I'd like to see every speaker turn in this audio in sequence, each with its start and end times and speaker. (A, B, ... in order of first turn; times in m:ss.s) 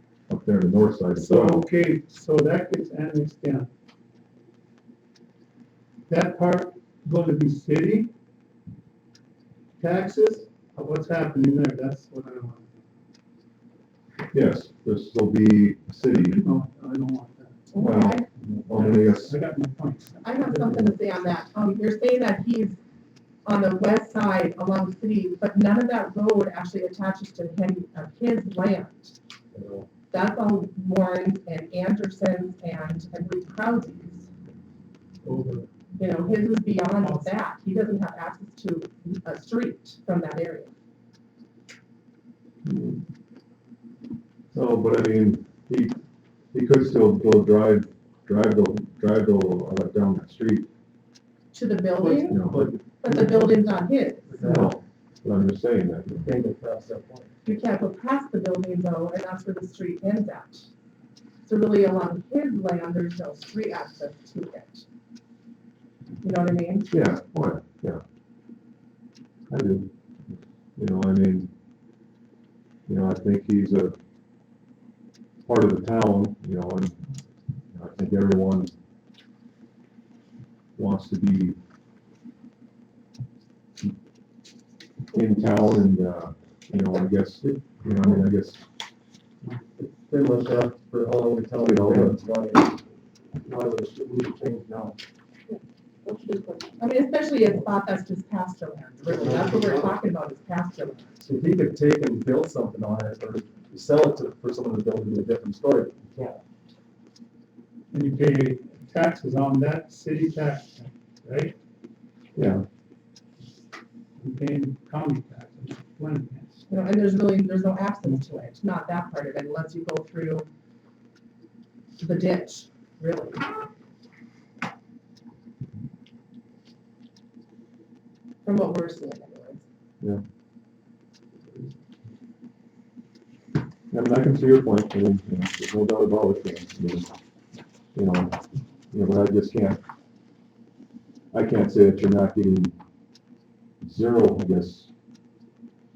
0:00.3-0:01.6 A
0:01.2-0:03.7 B
0:06.1-0:08.1 B
0:09.8-0:12.8 B
0:14.3-0:16.4 A
0:16.1-0:17.9 B
0:17.7-0:18.2 C
0:17.8-0:19.3 A
0:18.4-0:20.9 B
0:20.2-0:22.8 C
0:23.4-0:29.2 C
0:29.5-0:29.9 D
0:30.1-0:34.3 C
0:35.3-0:35.6 B
0:36.0-0:40.7 C
0:37.0-0:37.2 B
0:42.6-0:43.0 A
0:44.5-0:46.0 A
0:46.5-0:50.7 A
0:51.5-0:52.4 C
0:52.0-0:54.8 D
0:52.3-0:52.6 A
0:53.0-0:54.3 C
0:54.4-0:56.3 A
0:56.2-0:57.3 D
0:57.4-1:00.7 C
1:01.4-1:04.8 C
1:06.2-1:06.9 C
1:06.9-1:08.0 A
1:09.5-1:11.5 A
1:12.9-1:14.0 A
1:15.5-1:17.0 A
1:17.7-1:18.7 A
1:20.8-1:21.6 A
1:25.1-1:28.6 A
1:29.5-1:32.8 D
1:31.6-1:32.2 A
1:33.4-1:35.0 D
1:36.1-1:41.2 C
1:39.1-1:40.0 D
1:41.2-1:46.4 D
1:47.9-1:51.5 B
1:52.4-1:52.6 A
1:54.2-1:56.6 B
1:56.7-2:00.5 C
2:02.0-2:03.5 C
2:08.4-2:09.6 C
2:13.9-2:17.1 A
2:17.9-2:18.4 A
2:18.9-2:19.8 A
2:21.3-2:22.7 A
2:23.8-2:24.9 A